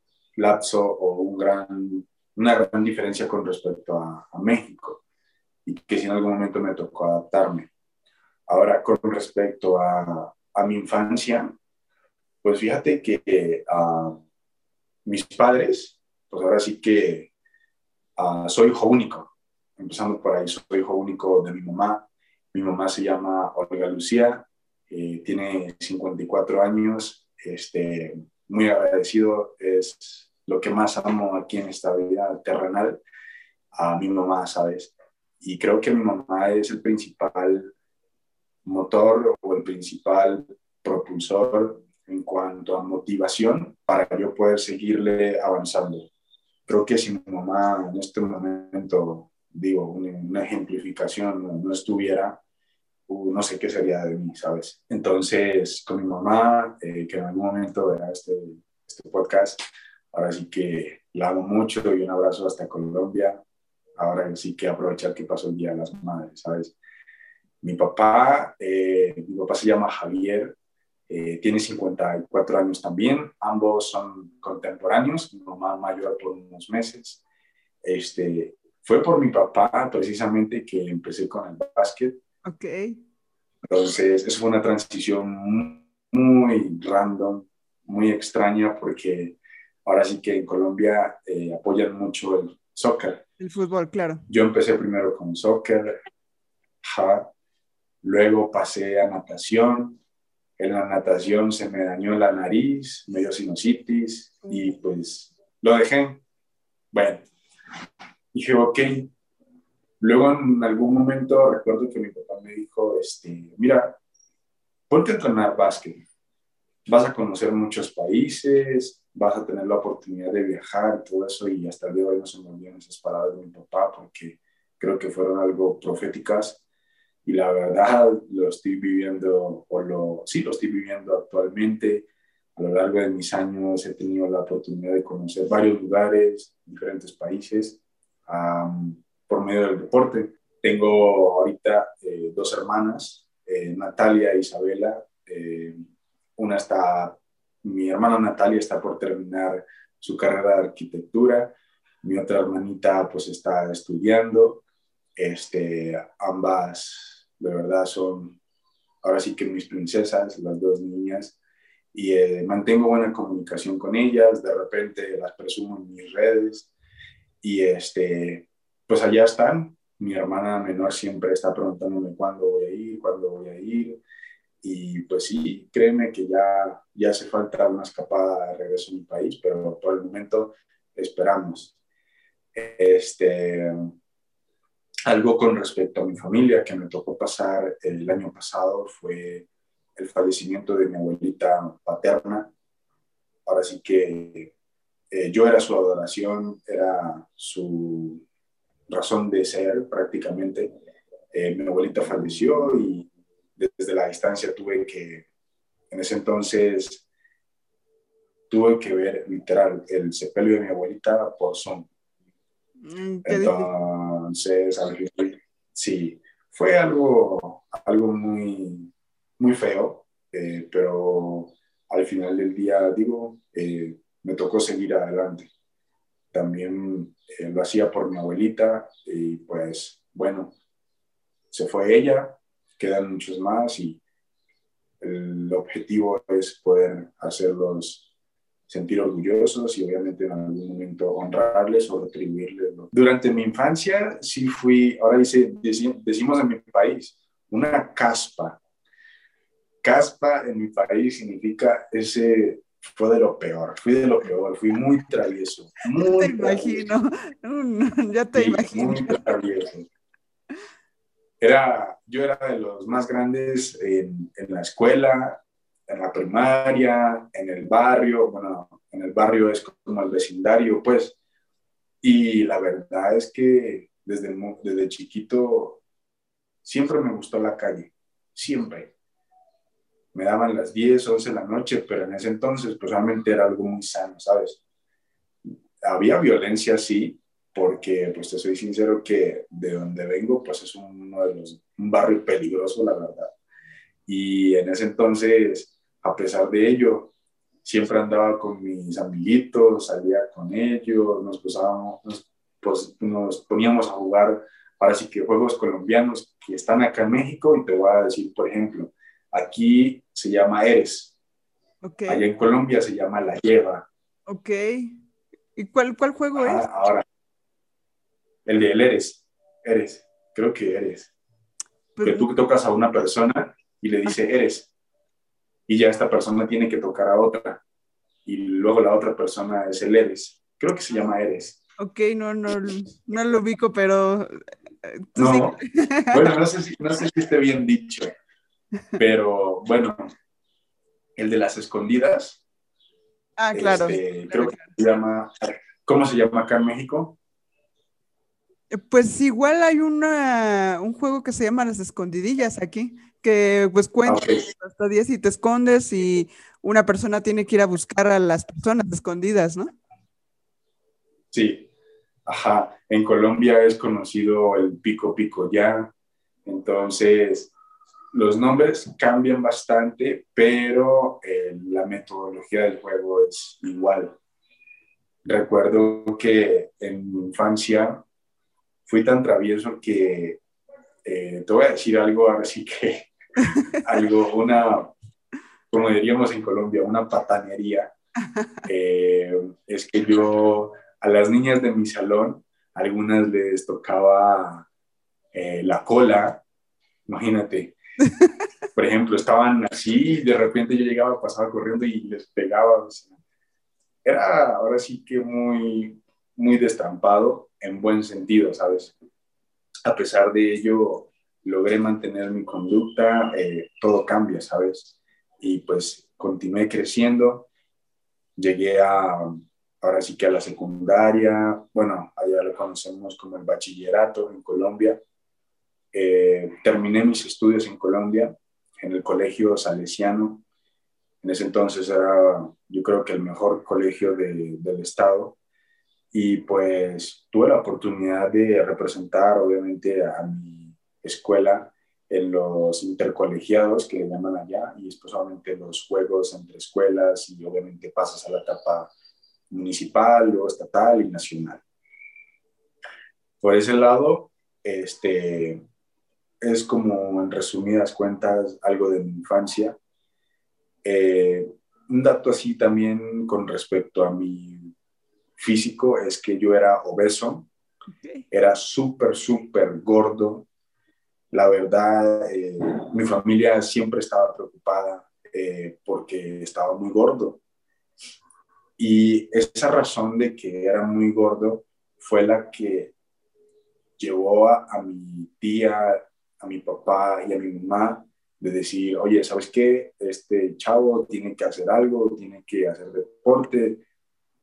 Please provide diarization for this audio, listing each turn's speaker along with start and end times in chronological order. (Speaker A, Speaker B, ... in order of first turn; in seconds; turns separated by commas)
Speaker A: 0.3-5.0, Speaker A: 5.6-7.7, Speaker A: 8.5-11.5, Speaker A: 12.4-14.2, Speaker A: 15.0-17.3, Speaker A: 18.2-33.0, Speaker A: 33.7-37.7, Speaker A: 38.6-46.1, Speaker A: 46.7-52.4, Speaker A: 53.1-59.6, Speaker A: 60.1-63.4, Speaker A: 64.0-66.8, Speaker A: 67.6-70.5, Speaker A: 71.1-77.2, Speaker A: 77.8-82.2, Speaker B: 82.4-83.0, Speaker A: 83.6-93.2, Speaker B: 93.4-94.2, Speaker A: 94.3-95.9, Speaker A: 96.8-97.3, Speaker A: 98.0-100.0, Speaker A: 100.6-106.2, Speaker A: 106.9-107.3, Speaker A: 108.3-109.1, Speaker A: 110.0-114.0, Speaker A: 114.9-116.0, Speaker A: 116.9-126.6, Speaker A: 127.2-145.8, Speaker A: 146.4-154.6, Speaker A: 155.2-158.4, Speaker A: 159.0-161.4, Speaker A: 161.9-166.7, Speaker A: 167.4-174.0, Speaker A: 174.6-181.7, Speaker A: 182.5-183.8, Speaker A: 185.1-192.5, Speaker A: 193.4-194.5, Speaker A: 195.1-198.2, Speaker A: 198.9-200.7, Speaker A: 201.3-205.3, Speaker A: 205.9-207.1, Speaker A: 208.5-211.9, Speaker B: 212.8-213.7, Speaker A: 213.2-225.5, Speaker A: 226.3-230.5, Speaker A: 231.5-234.0, Speaker A: 235.0-238.1, Speaker A: 238.7-248.6, Speaker A: 249.8-256.9, Speaker B: 256.0-259.2, Speaker A: 258.3-259.9, Speaker A: 261.4-271.2, Speaker A: 272.0-275.8, Speaker A: 276.6-278.9, Speaker A: 280.1-284.6, Speaker A: 285.8-293.3, Speaker A: 294.1-297.1, Speaker A: 297.6-311.1, Speaker B: 311.8-312.2, Speaker A: 312.1-313.9, Speaker B: 314.3-314.9, Speaker B: 315.6-316.6, Speaker A: 316.4-317.0, Speaker A: 318.4-321.1, Speaker B: 321.9-322.3, Speaker A: 322.0-324.7, Speaker A: 325.7-327.6, Speaker A: 328.2-331.6, Speaker B: 331.8-334.3, Speaker B: 334.9-336.3, Speaker A: 335.1-335.6, Speaker A: 336.1-338.1, Speaker A: 339.0-340.1, Speaker A: 341.1-342.4, Speaker B: 343.4-344.7, Speaker A: 343.5-345.3, Speaker A: 345.8-347.2, Speaker B: 348.7-359.7, Speaker A: 354.1-354.4, Speaker A: 361.3-361.7, Speaker A: 362.2-365.9, Speaker A: 366.4-367.5, Speaker A: 368.1-374.2, Speaker A: 375.2-378.0, Speaker A: 378.9-380.4, Speaker A: 381.0-384.9, Speaker A: 385.7-387.9, Speaker A: 388.6-394.7, Speaker A: 395.3-396.4, Speaker A: 397.1-397.7, Speaker A: 398.7-403.1, Speaker A: 404.0-408.9, Speaker A: 409.8-417.5, Speaker A: 418.4-425.0, Speaker A: 425.9-430.4, Speaker A: 431.2-435.4, Speaker A: 436.1-448.9, Speaker A: 449.5-451.6, Speaker A: 453.4-455.6, Speaker A: 456.4-459.8, Speaker A: 460.8-464.7, Speaker A: 465.4-467.5, Speaker A: 468.3-470.5, Speaker A: 471.3-477.4, Speaker A: 478.8-482.9, Speaker A: 484.0-493.8